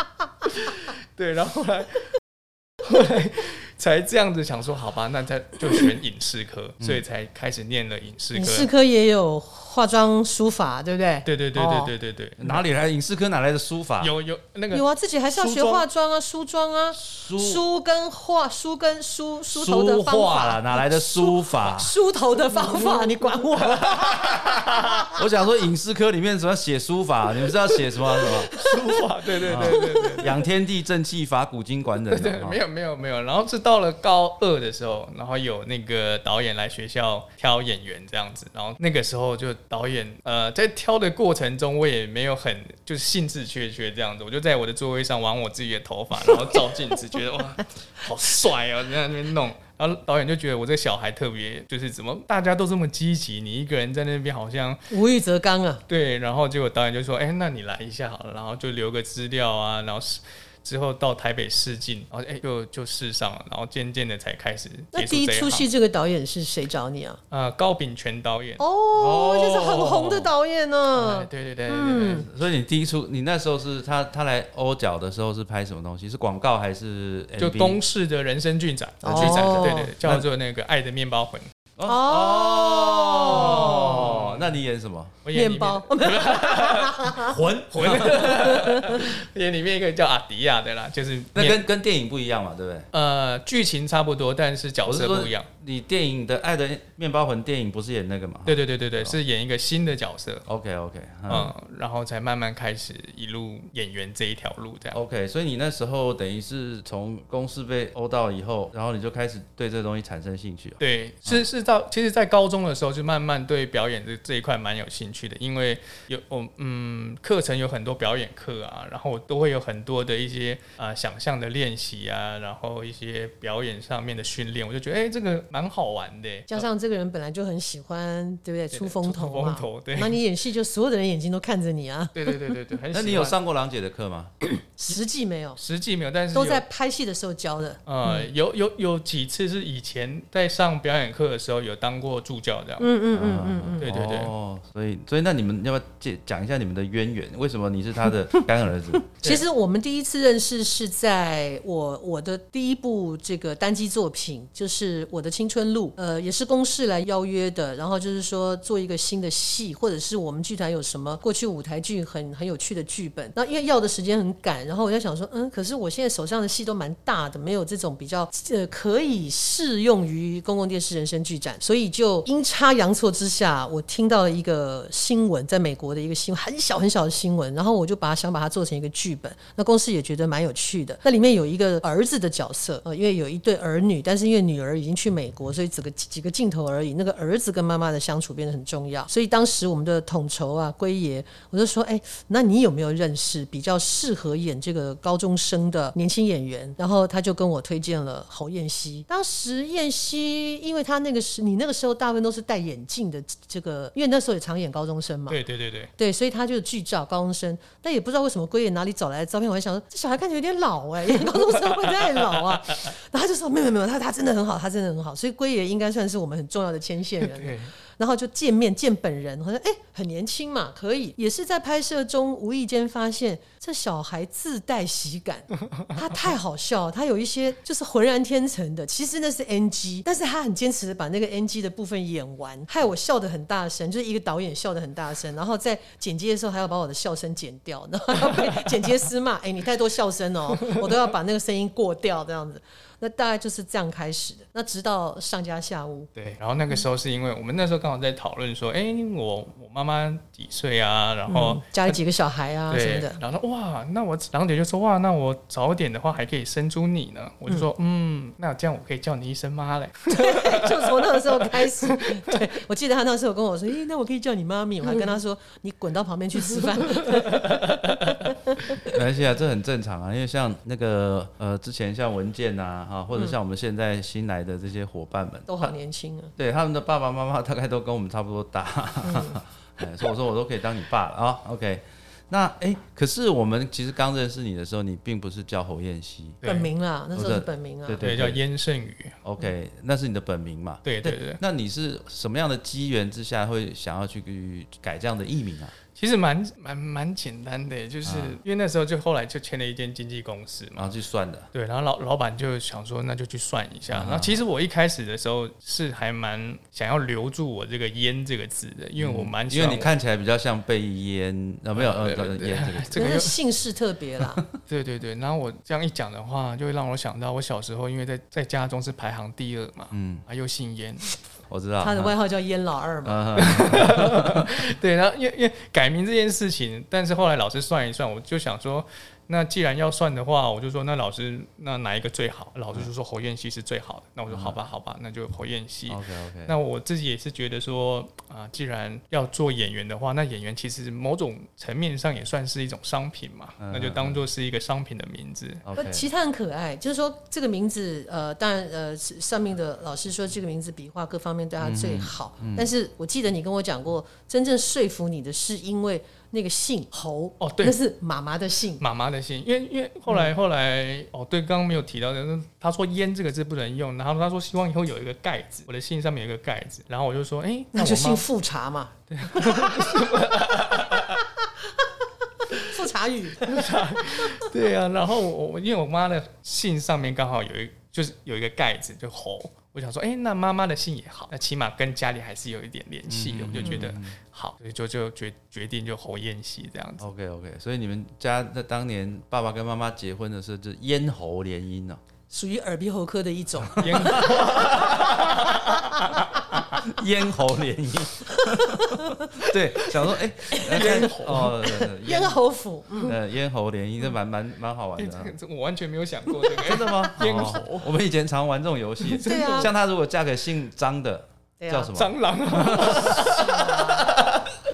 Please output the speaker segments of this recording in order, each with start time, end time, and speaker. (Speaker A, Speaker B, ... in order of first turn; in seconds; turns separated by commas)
Speaker A: 0.4-2.1, Speaker A: 2.8-8.7, Speaker B: 8.3-11.9, Speaker A: 11.2-12.6, Speaker C: 12.4-14.1, Speaker A: 14.0-14.8, Speaker B: 14.7-25.1, Speaker A: 15.4-15.7, Speaker C: 16.9-17.6, Speaker C: 19.5-21.9, Speaker A: 22.7-25.1, Speaker C: 25.1-28.5, Speaker B: 28.1-30.2, Speaker A: 28.5-30.3, Speaker C: 29.4-32.6, Speaker A: 32.0-54.9, Speaker B: 54.9-55.8, Speaker A: 55.9-65.7, Speaker B: 64.9-67.2, Speaker A: 67.3-70.3, Speaker B: 68.6-72.3, Speaker A: 70.9-72.3, Speaker C: 72.3-77.8, Speaker A: 77.4-81.5, Speaker B: 79.0-79.9, Speaker C: 79.1-80.2, Speaker C: 81.8-85.2, Speaker B: 81.8-84.0, Speaker A: 83.2-84.6, Speaker A: 85.2-91.6, Speaker B: 85.3-87.4, Speaker C: 87.2-88.4, Speaker B: 88.1-89.0, Speaker C: 91.3-92.9, Speaker A: 92.9-95.5, Speaker C: 94.8-99.2, Speaker A: 98.5-100.4, Speaker C: 100.5-101.5, Speaker A: 101.3-105.0, Speaker C: 104.9-111.4, Speaker A: 110.8-126.6, Speaker B: 126.5-132.5, Speaker A: 128.7-130.2, Speaker A: 132.1-133.4, Speaker C: 132.9-134.3, Speaker B: 134.6-135.6, Speaker A: 135.6-136.6, Speaker B: 136.3-138.2, Speaker A: 137.8-142.9, Speaker B: 142.8-143.9, Speaker C: 143.1-149.1, Speaker A: 143.8-144.3, Speaker B: 149.1-205.4, Speaker A: 205.3-205.9, Speaker B: 206.0-246.1, Speaker A: 211.9-212.8, Speaker A: 217.2-217.7, Speaker A: 246.2-252.0, Speaker B: 251.3-253.2, Speaker A: 252.7-262.4, Speaker B: 260.1-268.6, Speaker A: 267.1-267.6, Speaker C: 268.8-275.7, Speaker B: 275.5-276.3, Speaker C: 276.4-286.4, Speaker B: 279.0-279.4, Speaker A: 286.4-286.7, Speaker B: 286.4-288.0, Speaker C: 287.1-288.4, Speaker A: 288.0-289.2, Speaker C: 289.2-295.7, Speaker A: 290.8-291.4, Speaker A: 295.9-300.9, Speaker C: 298.0-298.4, Speaker C: 300.8-301.5, Speaker A: 301.5-309.9, Speaker C: 303.9-304.4, Speaker C: 309.0-313.1, Speaker A: 311.7-313.4, Speaker B: 312.9-314.4, Speaker A: 314.7-321.1, Speaker C: 319.9-320.2, Speaker C: 321.5-322.1, Speaker B: 321.8-323.5, Speaker C: 323.0-324.5, Speaker A: 323.4-345.6, Speaker C: 334.3-334.6, Speaker C: 335.9-336.5, Speaker C: 343.6-344.2, Speaker C: 345.6-346.1, Speaker B: 345.8-358.8, Speaker C: 351.6-352.7, Speaker A: 357.4-357.8, Speaker A: 358.8-368.2, Speaker B: 367.7-371.8, Speaker A: 369.1-371.2, Speaker B: 372.4-374.4, Speaker A: 373.4-387.1, Speaker C: 383.1-384.2, Speaker B: 383.6-383.9, Speaker C: 387.0-392.0, Speaker B: 392.3-396.2, Speaker A: 393.8-396.3, Speaker C: 393.9-395.4, Speaker C: 396.5-402.4, Speaker B: 398.4-399.9, Speaker B: 400.5-403.1, Speaker A: 400.6-401.5, Speaker C: 403.0-405.3, Speaker A: 405.0-407.9, Speaker C: 406.6-413.2, Speaker A: 409.0-409.7, Speaker B: 409.2-409.7, Speaker B: 411.6-411.9, Speaker A: 411.9-414.5, Speaker B: 413.1-414.2